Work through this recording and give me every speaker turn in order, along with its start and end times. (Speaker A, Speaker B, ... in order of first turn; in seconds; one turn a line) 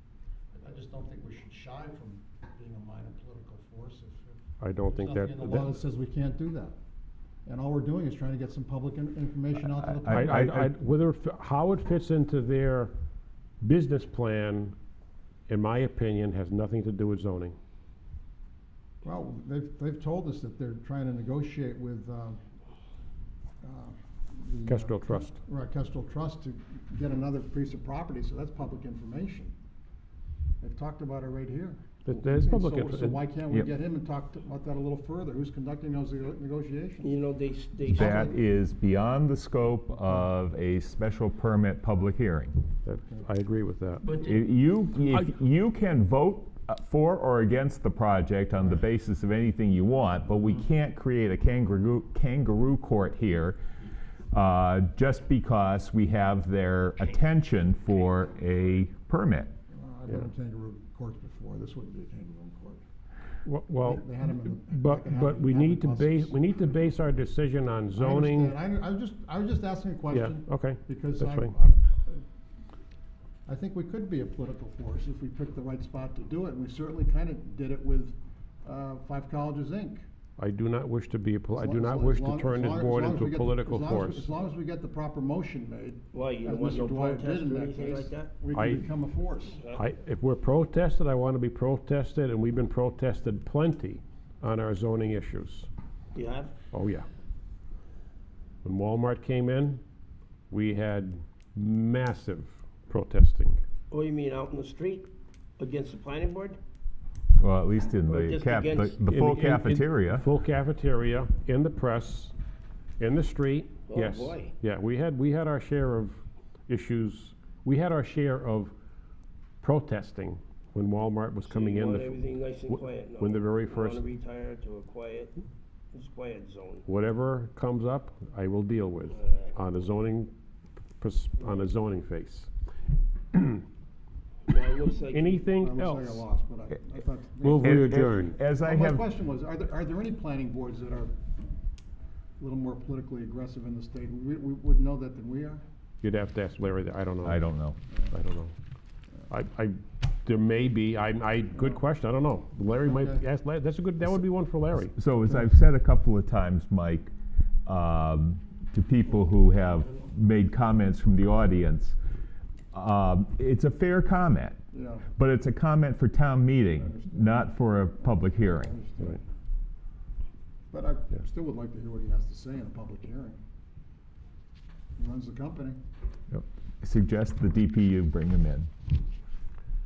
Speaker A: 0.6-4.4
Speaker B: 4.6-5.7
Speaker A: 4.9-6.8
Speaker A: 7.5-10.4
Speaker C: 9.8-10.7
Speaker B: 10.1-12.9
Speaker B: 13.6-14.8
Speaker B: 15.5-17.6
Speaker A: 19.0-22.4
Speaker A: 23.6-29.5
Speaker B: 24.7-25.4
Speaker A: 30.6-37.1
Speaker B: 32.0-33.2
Speaker D: 37.0-38.3
Speaker C: 37.9-42.6
Speaker A: 37.9-38.3
Speaker B: 42.9-44.2
Speaker C: 44.2-53.6
Speaker C: 54.3-59.5
Speaker A: 59.7-62.8
Speaker B: 63.5-68.5
Speaker A: 63.8-66.4
Speaker A: 67.9-72.2
Speaker B: 70.1-71.5
Speaker A: 73.5-80.0
Speaker B: 80.4-84.3
Speaker A: 81.5-89.6
Speaker D: 86.1-88.3
Speaker B: 88.5-88.9
Speaker D: 89.6-89.8
Speaker B: 89.8-95.7
Speaker D: 96.1-96.6
Speaker B: 96.7-97.1
Speaker B: 98.6-99.8
Speaker B: 100.5-103.6
Speaker D: 103.9-106.6
Speaker C: 107.4-110.3
Speaker D: 108.1-109.0
Speaker B: 109.0-112.3
Speaker B: 113.0-118.7
Speaker D: 113.9-114.5
Speaker B: 119.6-124.0
Speaker D: 121.5-125.3
Speaker D: 125.9-126.9
Speaker B: 126.9-130.3
Speaker D: 129.2-129.5
Speaker B: 131.0-132.5
Speaker B: 133.3-133.6
Speaker D: 134.5-135.4
Speaker B: 135.1-136.2
Speaker A: 135.6-141.1
Speaker B: 137.4-138.4
Speaker C: 137.6-139.1
Speaker A: 142.4-145.6
Speaker B: 146.0-147.4
Speaker C: 147.2-147.8
Speaker A: 147.9-148.2
Speaker B: 148.1-148.6
Speaker B: 149.3-154.9
Speaker A: 151.5-151.8
Speaker A: 152.8-153.2
Speaker C: 154.9-157.1
Speaker C: 157.7-162.0
Speaker C: 162.7-164.6
Speaker A: 164.7-165.1
Speaker C: 165.2-168.7
Speaker A: 166.8-169.2
Speaker A: 170.7-173.4
Speaker A: 175.0-175.8
Speaker C: 176.3-178.7